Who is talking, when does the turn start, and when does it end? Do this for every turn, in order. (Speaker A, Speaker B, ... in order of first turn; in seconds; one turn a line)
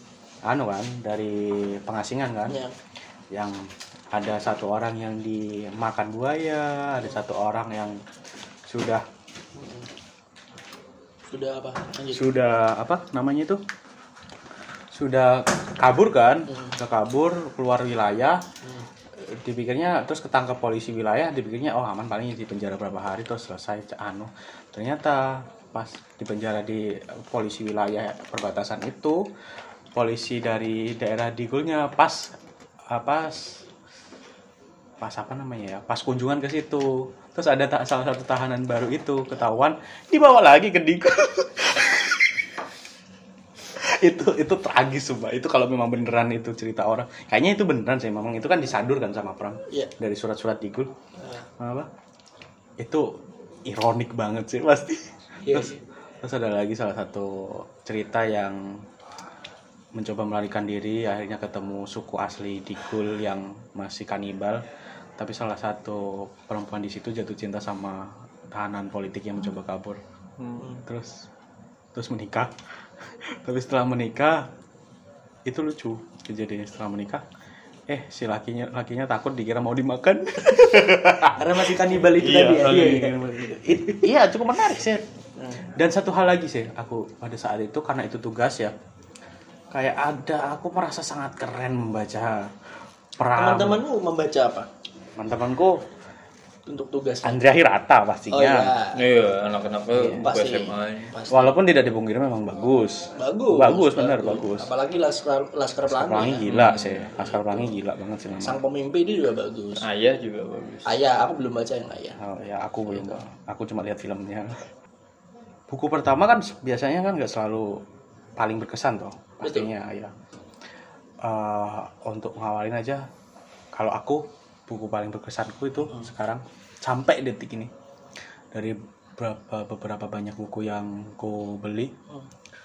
Speaker A: 0.4-2.6
Speaker B: 2.5-2.7
Speaker A: 3.3-8.0
Speaker A: 8.7-9.0
Speaker B: 9.6-9.9
Speaker B: 11.3-12.3
Speaker A: 12.1-13.6
Speaker A: 14.9-18.4
Speaker B: 16.5-16.8
Speaker A: 19.2-29.2
Speaker A: 29.9-32.4
Speaker A: 32.9-33.6
Speaker A: 35.0-42.5
Speaker A: 43.7-50.9
Speaker B: 51.2-51.5
Speaker A: 51.6-51.9
Speaker A: 52.8-58.8
Speaker B: 55.4-55.8
Speaker A: 60.0-64.6
Speaker A: 65.2-70.0
Speaker C: 70.4-70.7
Speaker A: 70.8-71.2
Speaker A: 71.9-74.5
Speaker A: 75.5-77.2
Speaker A: 77.9-85.0
Speaker B: 81.3-84.1
Speaker B: 85.4-85.7
Speaker A: 85.6-88.7
Speaker A: 89.7-92.5
Speaker A: 93.2-93.8
Speaker B: 93.3-94.7
Speaker A: 95.2-95.8
Speaker B: 96.7-97.4
Speaker A: 97.2-98.7
Speaker B: 98.3-99.0
Speaker C: 98.9-101.1
Speaker A: 99.9-100.2
Speaker B: 100.2-101.6
Speaker A: 101.3-104.7
Speaker B: 103.1-106.5
Speaker A: 105.9-108.6
Speaker C: 106.5-107.2
Speaker B: 107.2-107.7
Speaker B: 108.4-109.8
Speaker C: 109.8-111.0
Speaker B: 110.8-112.2
Speaker A: 112.2-114.7
Speaker B: 112.9-113.2
Speaker A: 115.7-117.8
Speaker A: 118.4-120.1
Speaker B: 119.4-119.7
Speaker A: 121.2-123.0
Speaker A: 123.7-127.7
Speaker A: 128.5-131.9